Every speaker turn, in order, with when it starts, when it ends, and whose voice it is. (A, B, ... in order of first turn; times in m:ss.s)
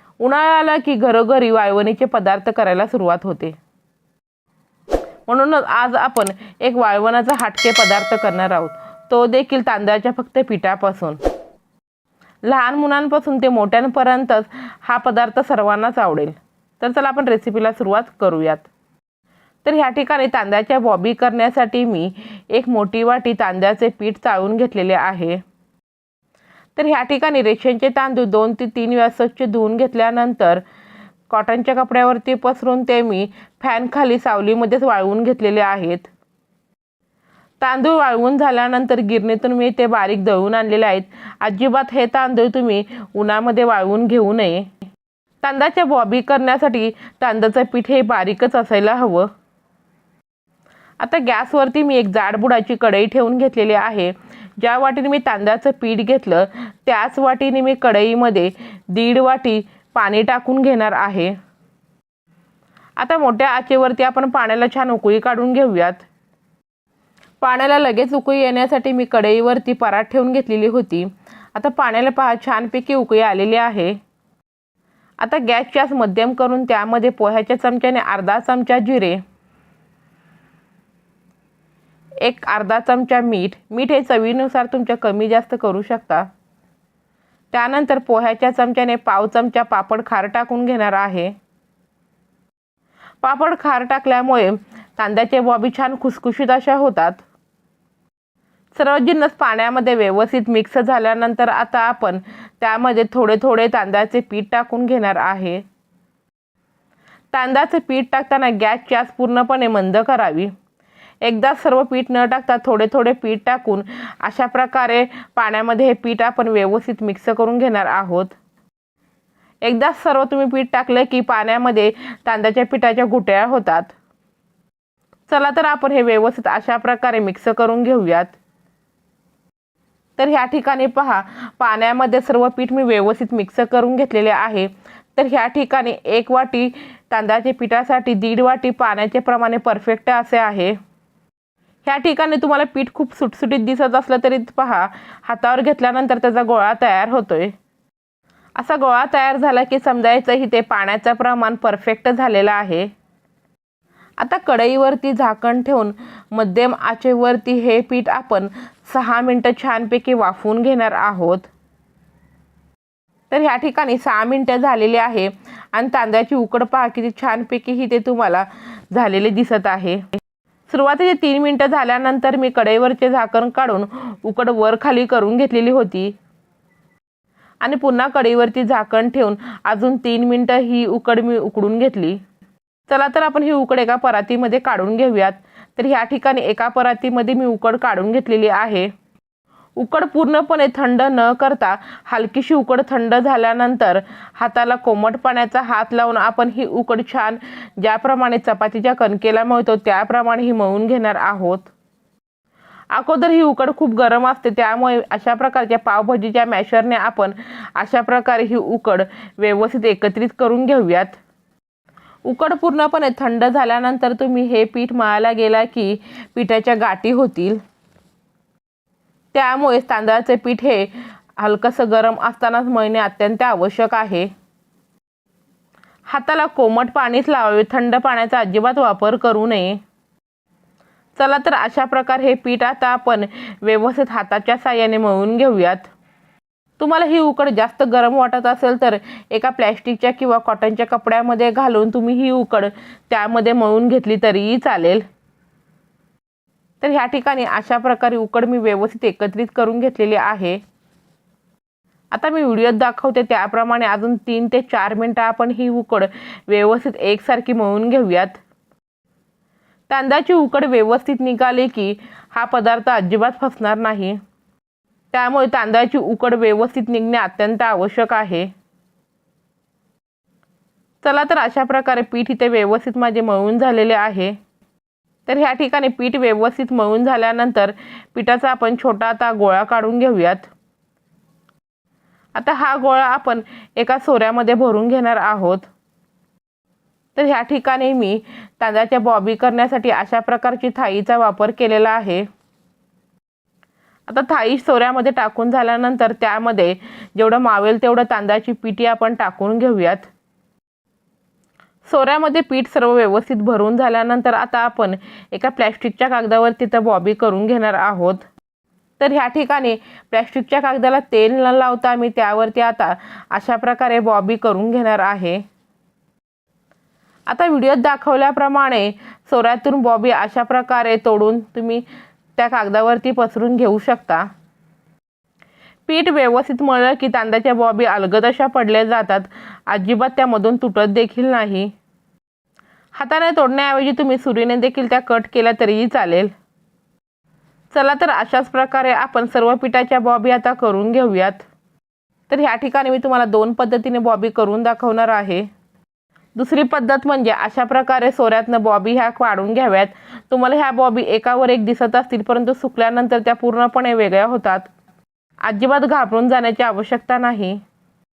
0:00.2-0:03.6 A
0:05.3-0:11.2 A
0:12.4-0:18.7 A
0:19.6-0:25.4 A
0:26.8-0:30.6 A
0:31.3-0:36.1 A
0:37.6-0:44.7 A
0:45.4-0:49.3 A
0:51.0-1:01.4 A
1:03.0-1:06.0 A
1:07.4-1:14.0 A
1:15.2-1:19.2 A
1:22.2-1:26.3 A
1:27.5-1:31.3 A
1:33.2-1:37.2 A
1:38.7-1:45.6 A
1:47.3-1:50.5 A
1:51.2-1:58.3 A
1:59.6-2:03.9 A
2:05.3-2:08.3 A
2:10.2-2:20.8 A
2:21.8-2:27.5 A
2:28.6-2:32.9 A
2:34.2-2:41.5 A
2:43.3-2:50.0 A
2:50.7-2:56.1 A
2:57.6-3:02.2 A
3:02.9-3:08.9 A
3:09.8-3:21.7 A
3:22.9-3:31.2 A
3:32.2-3:37.6 A
3:39.3-3:44.3 A
3:46.1-3:49.8 A
3:51.2-3:55.9 A
3:56.8-4:05.0 A
4:06.8-4:10.6 A
4:12.1-4:18.4 A
4:19.9-4:24.2 A
4:25.1-4:28.5 A
4:31.0-4:34.4 A
4:35.3-4:40.5 A
4:42.3-4:45.7 A
4:47.2-4:52.3 A
4:54.1-5:00.1 A
5:01.8-5:08.2 A
5:09.0-5:15.4 A
5:17.3-5:21.8 A
5:22.4-5:24.3 A
5:25.9-5:31.7 A
5:32.9-5:36.3 A
5:37.7-5:41.4 A
5:42.3-5:45.5 A
5:46.4-5:54.7 A
5:55.4-5:57.6 A